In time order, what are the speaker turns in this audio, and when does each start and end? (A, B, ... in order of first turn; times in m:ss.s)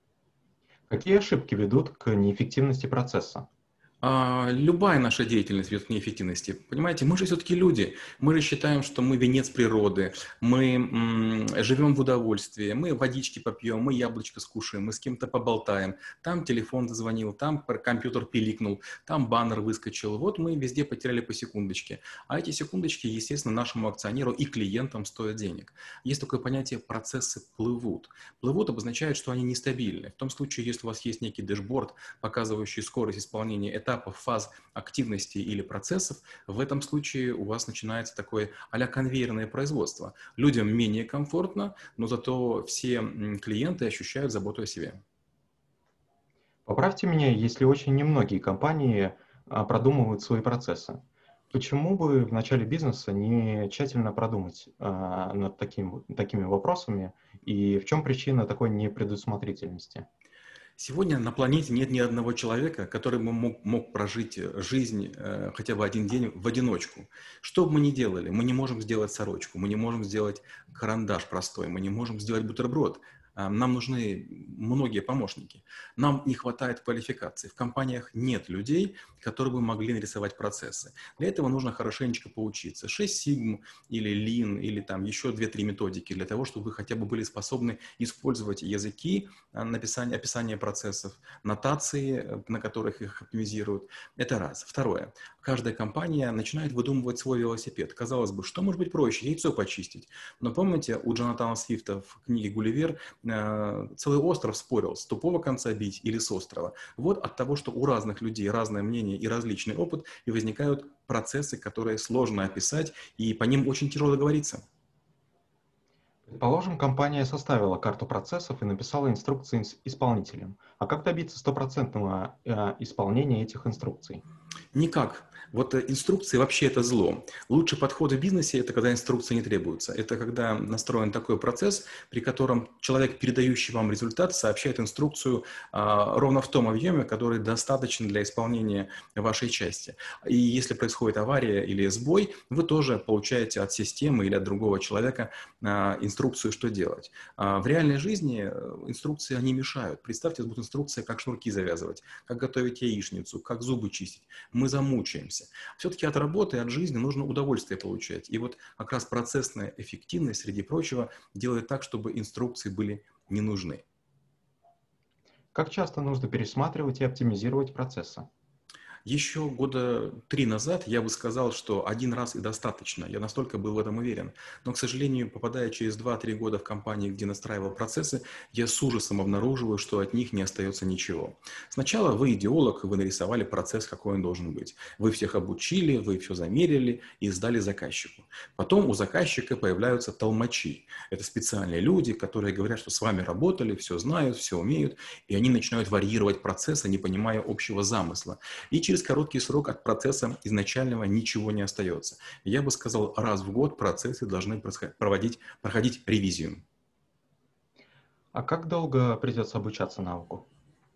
0:00.9-0:03.5 A
0:04.0-0:45.0 B
0:46.6-0:51.0 A
0:51.5-1:00.1 A
1:00.8-1:54.6 B
1:56.3-2:04.2 A
2:04.7-2:43.8 B
2:45.5-2:48.3 A
2:49.0-3:26.6 B
3:28.3-3:30.4 A